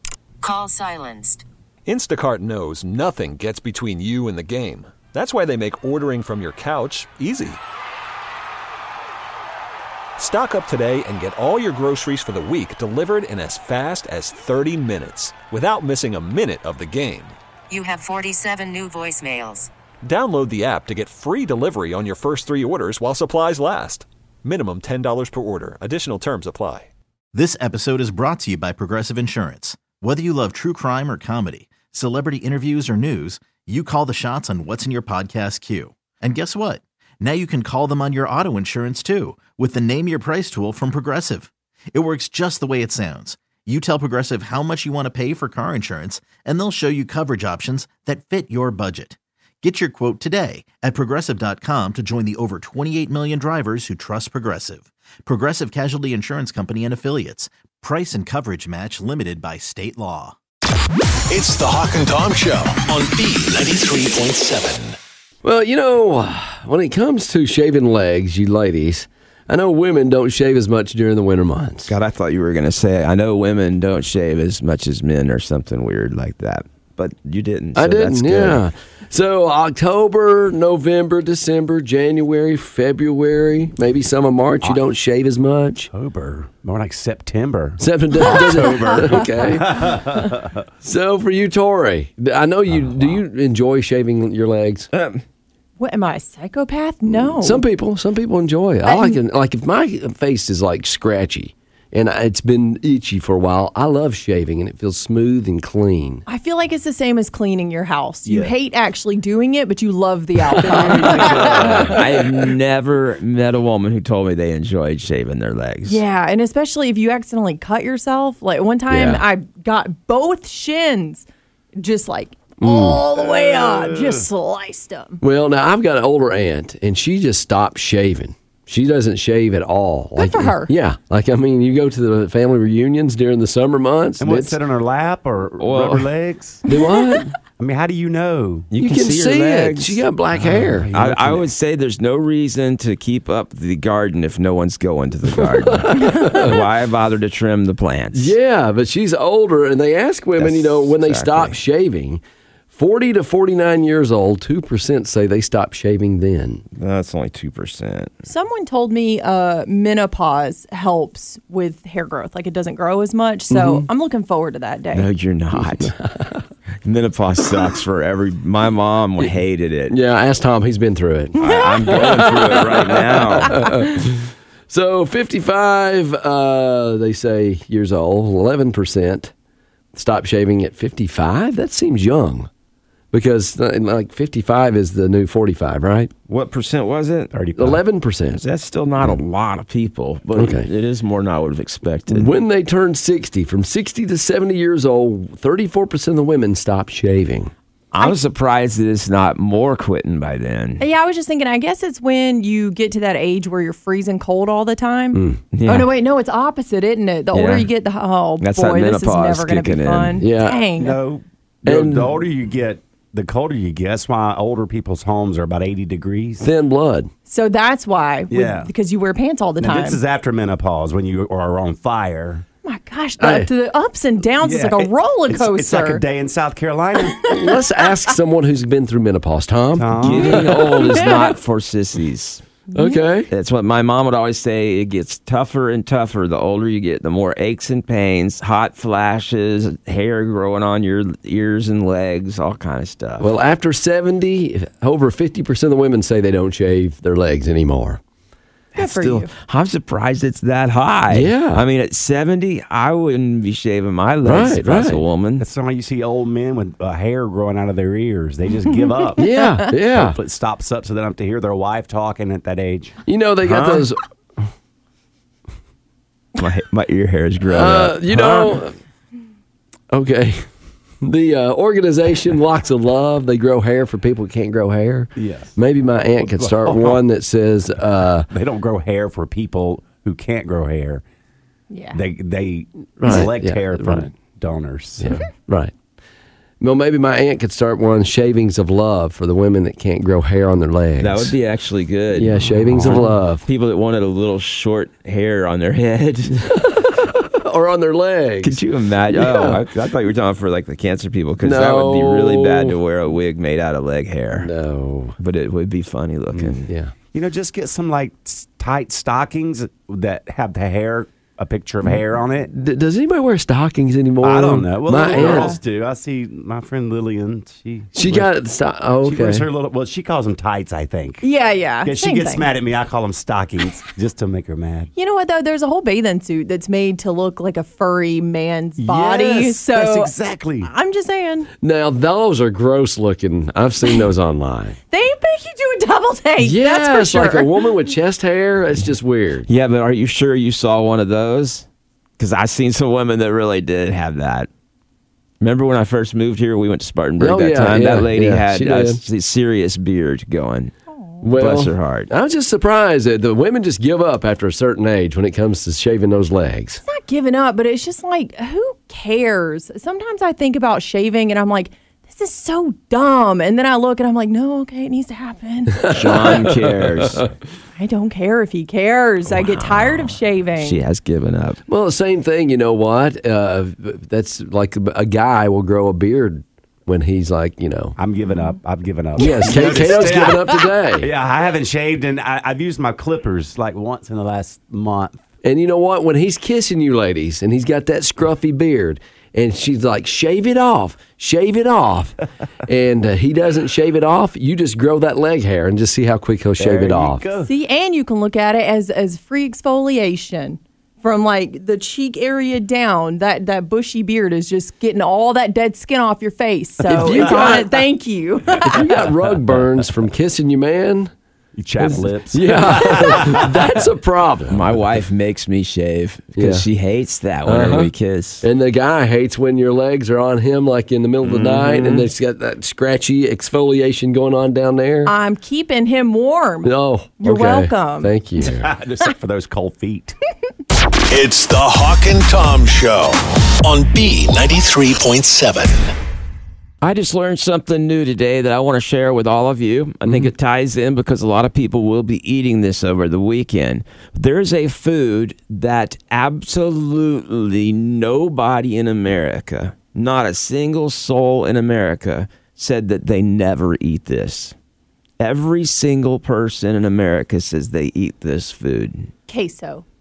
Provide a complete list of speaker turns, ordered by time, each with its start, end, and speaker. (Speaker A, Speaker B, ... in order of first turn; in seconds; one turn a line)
Speaker A: 0.4-1.4
Speaker B: 1.9-7.6
Speaker B: 10.2-17.3
Speaker A: 17.7-19.7
Speaker B: 20.0-26.9
Speaker C: 27.3-60.3
Speaker D: 61.3-65.0
Speaker E: 65.4-71.9
Speaker F: 71.9-78.6
Speaker E: 77.7-85.9
Speaker G: 85.9-90.5
Speaker E: 87.8-90.2
Speaker H: 88.3-88.7
Speaker E: 90.8-94.9
Speaker G: 92.8-93.2
Speaker F: 94.9-95.2
Speaker H: 95.8-97.6
Speaker E: 97.1-106.2
Speaker H: 98.8-99.2
Speaker H: 106.3-112.0
Speaker G: 108.2-108.5
Speaker G: 110.6-112.0
Speaker F: 111.2-116.0
Speaker E: 111.7-111.9
Speaker H: 115.9-121.2
Speaker E: 118.9-119.2
Speaker H: 121.8-125.2
Speaker E: 122.6-123.0
Speaker G: 123.1-124.2
Speaker E: 125.2-134.6
Speaker H: 130.2-130.7
Speaker G: 134.2-136.6
Speaker F: 135.6-136.1
Speaker E: 136.7-137.3
Speaker G: 137.6-138.7
Speaker F: 138.7-140.0
Speaker E: 138.8-140.9
Speaker G: 140.3-141.4
Speaker F: 140.9-148.3
Speaker E: 145.3-146.6
Speaker E: 148.1-156.6
Speaker F: 150.4-151.6
Speaker F: 156.7-158.1
Speaker H: 158.2-165.1
Speaker E: 163.5-163.9
Speaker F: 164.9-165.9
Speaker E: 165.5-166.4
Speaker F: 166.8-170.0
Speaker E: 169.9-179.3
Speaker F: 171.4-173.7
Speaker H: 171.4-172.3
Speaker E: 179.9-182.5
Speaker E: 183.1-186.1
Speaker F: 186.3-187.3
Speaker G: 187.3-187.8
Speaker E: 187.6-188.4
Speaker F: 188.3-192.3
Speaker E: 190.3-190.7
Speaker E: 192.1-197.5
Speaker F: 197.9-200.8
Speaker H: 200.8-211.0
Speaker E: 205.1-205.4
Speaker F: 205.5-205.9
Speaker F: 207.3-207.7
Speaker F: 208.4-210.2
Speaker E: 210.2-210.6
Speaker G: 210.8-216.5
Speaker E: 211.6-212.2
Speaker E: 216.4-217.1
Speaker H: 217.3-220.0
Speaker G: 218.3-218.7
Speaker G: 219.6-222.4
Speaker H: 222.6-226.0
Speaker E: 223.2-223.5
Speaker G: 224.4-227.3
Speaker H: 227.2-227.8
Speaker E: 227.3-231.0
Speaker G: 229.7-230.6
Speaker F: 230.0-232.4
Speaker H: 230.8-231.3
Speaker H: 232.7-233.0
Speaker E: 232.7-233.3
Speaker F: 233.3-243.3
Speaker E: 243.2-248.0
Speaker F: 248.7-255.5
Speaker H: 248.8-249.3
Speaker E: 251.1-251.6
Speaker E: 254.2-255.0
Speaker G: 255.4-263.0
Speaker E: 259.2-260.2
Speaker H: 259.2-259.7
Speaker E: 263.1-264.0
Speaker F: 263.5-263.9
Speaker F: 266.4-268.6
Speaker E: 267.5-268.7
Speaker E: 269.9-270.4
Speaker E: 271.0-278.3
Speaker G: 275.1-275.5
Speaker G: 276.2-277.0
Speaker G: 278.3-281.0
Speaker H: 281.7-282.0
Speaker G: 281.9-285.2
Speaker E: 283.0-284.1
Speaker F: 283.0-283.3
Speaker E: 285.0-285.7
Speaker E: 286.6-291.3
Speaker F: 291.0-296.5
Speaker E: 292.1-293.4
Speaker G: 292.4-293.1
Speaker E: 296.5-299.6
Speaker F: 298.4-304.5
Speaker E: 301.4-302.8
Speaker E: 304.4-305.2
Speaker F: 305.2-306.7
Speaker E: 306.7-306.9
Speaker G: 307.1-312.5
Speaker E: 312.5-315.5
Speaker G: 314.2-318.3
Speaker H: 315.1-315.6
Speaker E: 317.9-319.5
Speaker G: 319.0-321.2
Speaker H: 321.2-322.5
Speaker G: 321.8-324.9
Speaker H: 324.9-331.5
Speaker G: 328.8-330.7
Speaker E: 331.6-334.8
Speaker H: 334.9-337.6
Speaker E: 336.4-339.5
Speaker F: 339.5-341.6
Speaker F: 342.2-344.5
Speaker F: 345.4-350.7
Speaker E: 347.2-349.0
Speaker H: 350.9-351.2
Speaker E: 351.2-356.8
Speaker F: 351.4-352.1
Speaker H: 356.9-365.9
Speaker E: 365.8-367.3
Speaker F: 365.9-367.2
Speaker H: 367.8-370.8
Speaker F: 369.3-371.6
Speaker E: 371.7-377.9
Speaker G: 378.0-385.2
Speaker E: 379.2-381.1
Speaker H: 379.2-380.6
Speaker E: 385.4-392.1
Speaker E: 392.7-397.2
Speaker G: 396.6-397.5
Speaker H: 397.4-409.0
Speaker G: 406.8-407.7
Speaker E: 406.9-407.6
Speaker E: 408.6-411.1
Speaker G: 408.9-409.6
Speaker G: 411.6-413.6
Speaker E: 411.8-414.8
Speaker F: 414.5-418.4
Speaker E: 416.4-416.6
Speaker E: 417.4-425.1
Speaker F: 421.2-422.1
Speaker H: 425.0-428.1
Speaker E: 426.6-428.7
Speaker G: 428.4-430.1
Speaker D: 431.1-435.9
Speaker F: 436.8-454.5
Speaker F: 455.2-459.1
Speaker H: 459.3-459.8